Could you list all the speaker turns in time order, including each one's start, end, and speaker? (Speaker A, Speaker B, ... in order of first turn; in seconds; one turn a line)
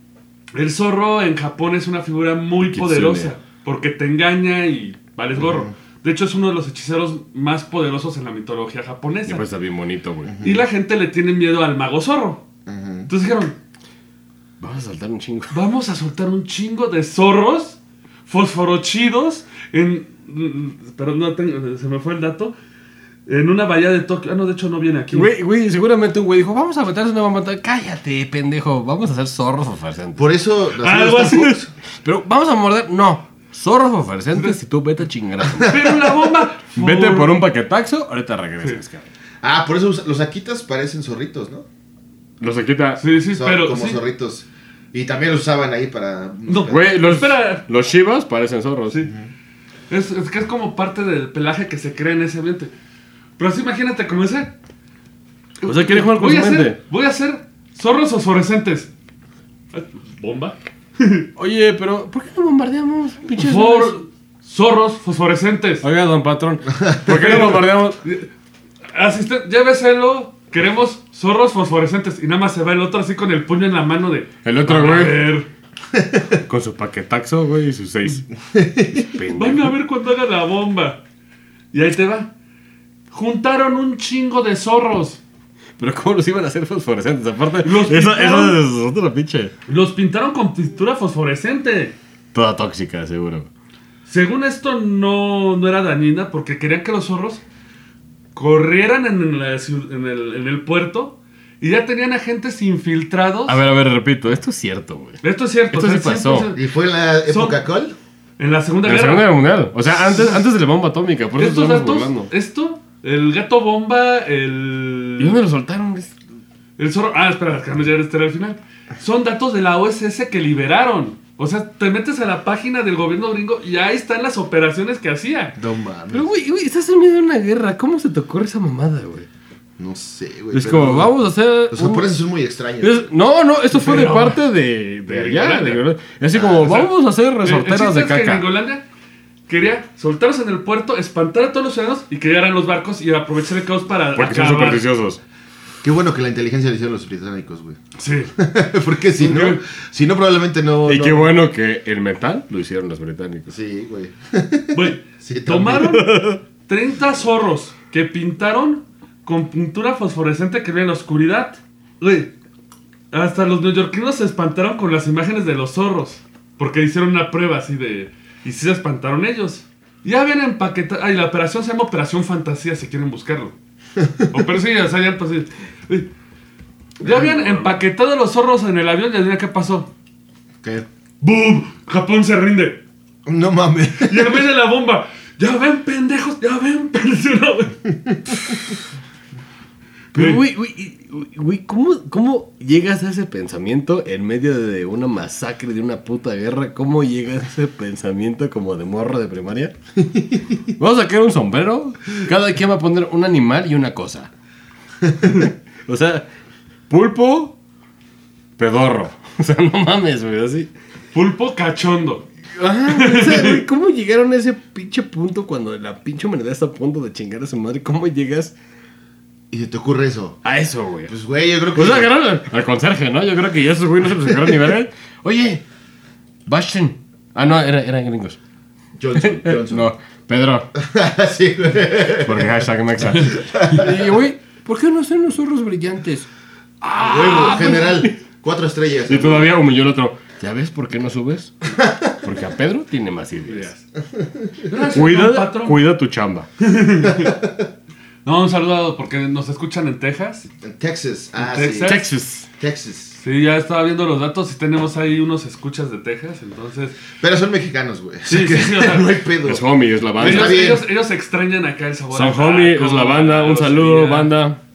Speaker A: 0.5-9.4
Speaker B: 2.6-3.3
Speaker C: 5.3-5.7
Speaker B: 9.2-10.3
Speaker C: 10.2-10.7
Speaker A: 10.4-12.4
Speaker C: 12.7-13.1
Speaker A: 13.1-13.6
Speaker B: 14.6-15.6
Speaker A: 15.5-22.5
Speaker A: 23.2-25.3
Speaker B: 25.1-30.3
Speaker C: 30.1-31.7
Speaker A: 30.8-31.6
Speaker B: 32.0-35.9
Speaker C: 35.5-36.0
Speaker A: 35.7-37.3
Speaker B: 36.7-39.1
Speaker C: 39.4-41.6
Speaker B: 42.4-43.0
Speaker A: 43.0-44.0
Speaker C: 43.3-46.8
Speaker A: 46.5-47.6
Speaker B: 46.7-49.0
Speaker C: 49.0-49.3
Speaker A: 49.9-52.7
Speaker A: 53.4-54.5
Speaker B: 55.6-56.8
Speaker A: 55.6-58.9
Speaker A: 59.7-61.3
Speaker B: 61.4-63.9
Speaker A: 63.4-65.8
Speaker B: 65.8-68.0
Speaker C: 66.7-67.4
Speaker A: 67.1-68.3
Speaker A: 68.9-75.5
Speaker B: 74.4-75.3
Speaker C: 75.9-76.4
Speaker B: 76.5-78.3
Speaker C: 78.5-79.1
Speaker B: 78.9-79.7
Speaker A: 79.3-81.0
Speaker A: 81.7-82.3
Speaker A: 83.1-85.2
Speaker B: 85.8-89.5
Speaker A: 87.6-88.6
Speaker A: 89.7-91.9
Speaker B: 92.3-93.5
Speaker A: 94.1-97.4
Speaker A: 98.3-103.6
Speaker B: 103.5-106.5
Speaker A: 105.2-106.7
Speaker C: 106.5-108.0
Speaker A: 107.2-107.6
Speaker A: 108.4-109.3
Speaker B: 108.8-112.3
Speaker A: 109.9-110.4
Speaker A: 111.4-115.4
Speaker B: 115.2-116.1
Speaker A: 116.8-125.6
Speaker C: 125.5-126.3
Speaker B: 126.1-129.3
Speaker C: 129.8-131.1
Speaker B: 130.5-132.1
Speaker C: 131.7-133.1
Speaker B: 132.8-138.5
Speaker A: 133.7-134.4
Speaker A: 135.1-135.8
Speaker C: 136.3-136.8
Speaker A: 136.6-136.9
Speaker A: 137.4-138.8
Speaker A: 139.5-144.8
Speaker B: 144.2-145.2
Speaker C: 145.8-147.8
Speaker A: 148.0-148.3
Speaker C: 148.3-151.3
Speaker A: 149.2-149.6
Speaker B: 150.8-153.5
Speaker C: 153.5-156.0
Speaker A: 154.7-162.3
Speaker B: 155.7-156.4
Speaker A: 163.1-173.5
Speaker C: 174.0-174.4
Speaker A: 174.3-176.1
Speaker A: 177.0-179.9
Speaker C: 177.0-177.7
Speaker A: 181.2-182.8
Speaker C: 183.2-184.4
Speaker A: 184.0-187.8
Speaker C: 188.0-188.4
Speaker A: 190.1-190.4
Speaker B: 190.1-199.7
Speaker C: 200.1-200.4
Speaker B: 200.8-204.3
Speaker B: 205.2-206.2
Speaker B: 206.9-207.5
Speaker B: 208.6-210.7
Speaker A: 211.1-212.2
Speaker B: 212.6-218.5
Speaker A: 212.9-213.6
Speaker C: 219.5-220.4
Speaker B: 220.4-221.1
Speaker C: 221.1-222.1
Speaker B: 221.7-225.6
Speaker B: 226.4-228.4
Speaker C: 229.0-229.9
Speaker B: 229.2-230.7
Speaker C: 230.7-234.1
Speaker B: 232.1-236.3
Speaker B: 236.8-238.2
Speaker C: 237.0-239.5
Speaker B: 239.1-241.5
Speaker C: 241.7-242.2
Speaker B: 242.2-243.7
Speaker A: 243.5-243.8
Speaker C: 244.1-244.7
Speaker A: 244.7-245.8
Speaker B: 244.9-246.5
Speaker A: 246.6-247.3
Speaker C: 247.0-247.7
Speaker A: 248.2-250.5
Speaker C: 250.6-252.0
Speaker A: 251.4-252.1
Speaker B: 251.8-252.5
Speaker C: 252.6-253.2
Speaker A: 253.2-256.9
Speaker C: 257.2-260.8
Speaker A: 258.3-259.1
Speaker B: 259.4-260.8
Speaker A: 260.2-264.3
Speaker B: 262.1-264.6